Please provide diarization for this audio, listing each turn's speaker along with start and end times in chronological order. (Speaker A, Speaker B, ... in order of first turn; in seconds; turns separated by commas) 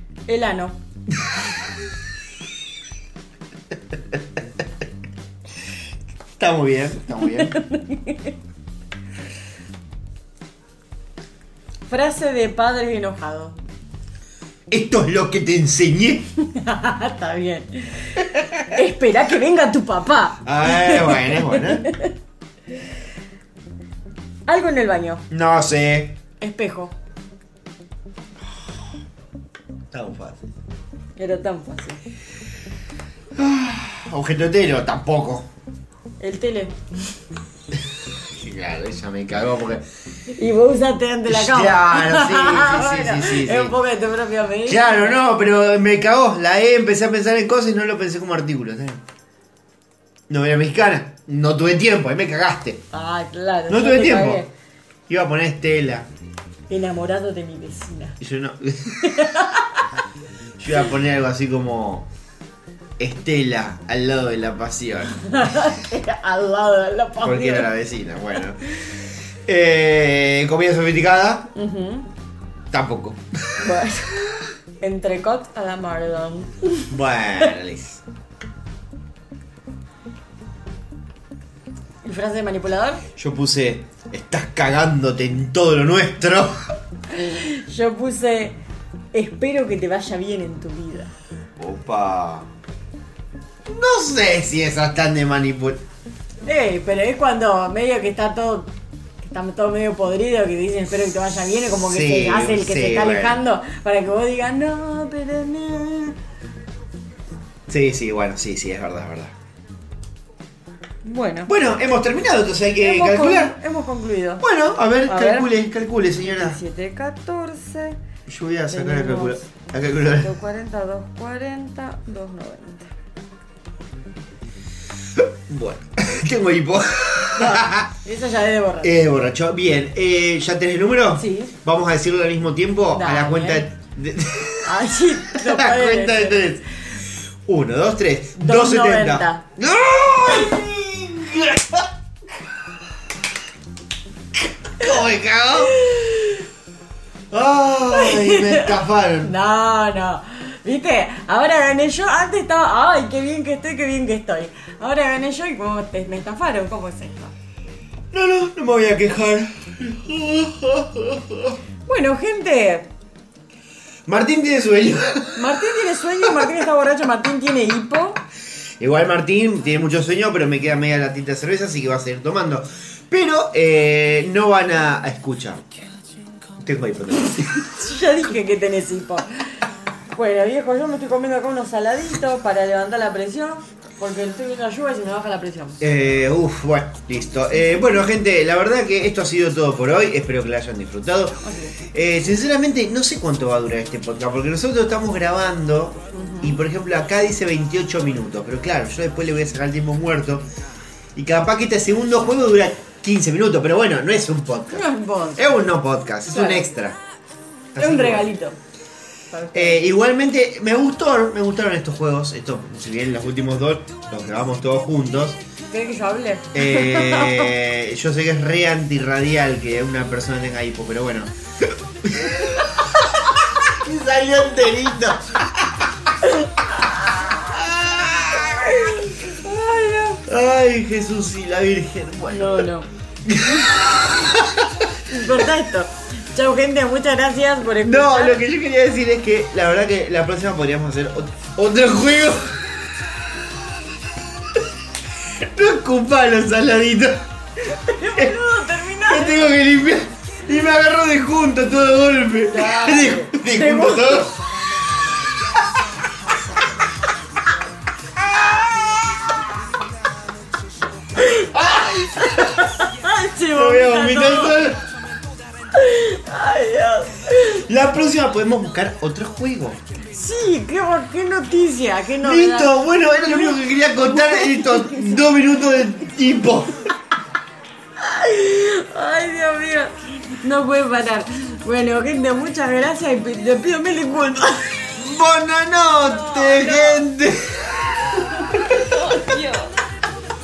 Speaker A: 0.3-0.8, Speaker B: 6.4-7.6, Speaker A: 7.3-8.3, Speaker A: 11.9-13.6, Speaker B: 14.7-16.3, Speaker A: 16.4-22.1, Speaker B: 20.4-21.9, Speaker A: 24.5-25.2, Speaker B: 25.3-26.2, Speaker A: 26.4-26.9, Speaker B: 29.9-30.5, Speaker A: 31.2-32.0, Speaker B: 33.4-35.5, Speaker A: 36.2-36.8, Speaker B: 38.2-39.9, Speaker A: 40.3-45.2, Speaker B: 41.3-43.8, Speaker B: 44.6-49.0, Speaker B: 50.3-52.9, Speaker A: 52.9-54.5, Speaker B: 53.7-54.5, Speaker B: 55.1-56.1, Speaker A: 56.7-58.2, Speaker B: 58.2-59.3, Speaker A: 59.0-59.8, Speaker B: 60.6-62.1, Speaker B: 63.0-65.4, Speaker A: 65.3-67.7, Speaker B: 67.2-68.6, Speaker B: 69.5-71.5, Speaker A: 71.5-72.1, Speaker B: 72.7-73.7, Speaker A: 73.6-74.3, Speaker A: 74.8-76.9, Speaker B: 76.9-78.0, Speaker A: 82.0-83.0, Speaker B: 83.2-86.5, Speaker A: 87.1-88.6, Speaker A: 89.1-91.1, Speaker B: 91.6-92.5, Speaker B: 93.7-95.8, Speaker A: 96.4-106.2, Speaker B: 101.8-103.4, Speaker B: 107.7-109.3, Speaker A: 111.0-111.5, Speaker B: 111.5-113.6, Speaker A: 112.8-114.5, Speaker B: 114.4-116.6, Speaker A: 115.1-115.5, Speaker A: 116.2-118.0, Speaker B: 118.3-120.3, Speaker A: 118.7-122.9, Speaker B: 125.2-127.9, Speaker A: 127.3-128.9, Speaker B: 128.8-136.7, Speaker A: 131.2-131.6, Speaker A: 132.9-133.7, Speaker A: 134.7-136.5, Speaker B: 137.4-141.9, Speaker A: 138.4-139.4, Speaker B: 144.7-145.8, Speaker A: 145.8-146.4, Speaker B: 147.3-149.3, Speaker A: 147.9-148.7, Speaker A: 149.2-157.3, Speaker B: 158.1-161.6, Speaker A: 161.9-162.9, Speaker B: 164.1-165.6, Speaker A: 165.3-168.2, Speaker B: 168.8-175.7, Speaker B: 176.6-177.6, Speaker A: 177.7-179.2, Speaker A: 180.1-185.8, Speaker B: 185.8-191.4, Speaker A: 191.4-191.8, Speaker B: 191.9-200.5, Speaker A: 196.1-196.6, Speaker B: 201.2-207.0, Speaker A: 204.7-205.4, Speaker A: 206.3-206.7, Speaker B: 207.7-208.3, Speaker A: 207.8-208.6, Speaker A: 209.3-209.8, Speaker B: 209.5-215.4, Speaker A: 215.7-217.5, Speaker B: 216.5-225.8, Speaker B: 227.3-228.8, Speaker A: 228.7-230.2, Speaker B: 230.2-232.7, Speaker A: 232.3-232.9, Speaker B: 233.2-234.7, Speaker A: 233.4-233.7, Speaker A: 235.1-238.4, Speaker B: 237.8-243.8, Speaker B: 245.3-247.3, Speaker A: 247.6-249.5, Speaker B: 249.1-254.4, Speaker A: 252.5-254.3, Speaker B: 258.2-259.3, Speaker A: 261.2-261.5, Speaker B: 261.4-262.7, Speaker A: 262.3-264.6, Speaker B: 263.5-264.8, Speaker A: 265.8-267.6, Speaker B: 267.5-269.8, Speaker A: 270.1-272.7, Speaker B: 272.2-276.9, Speaker A: 274.0-275.2, Speaker A: 278.0-284.9, Speaker B: 285.0-288.2, Speaker A: 286.1-287.0, Speaker A: 288.4-289.7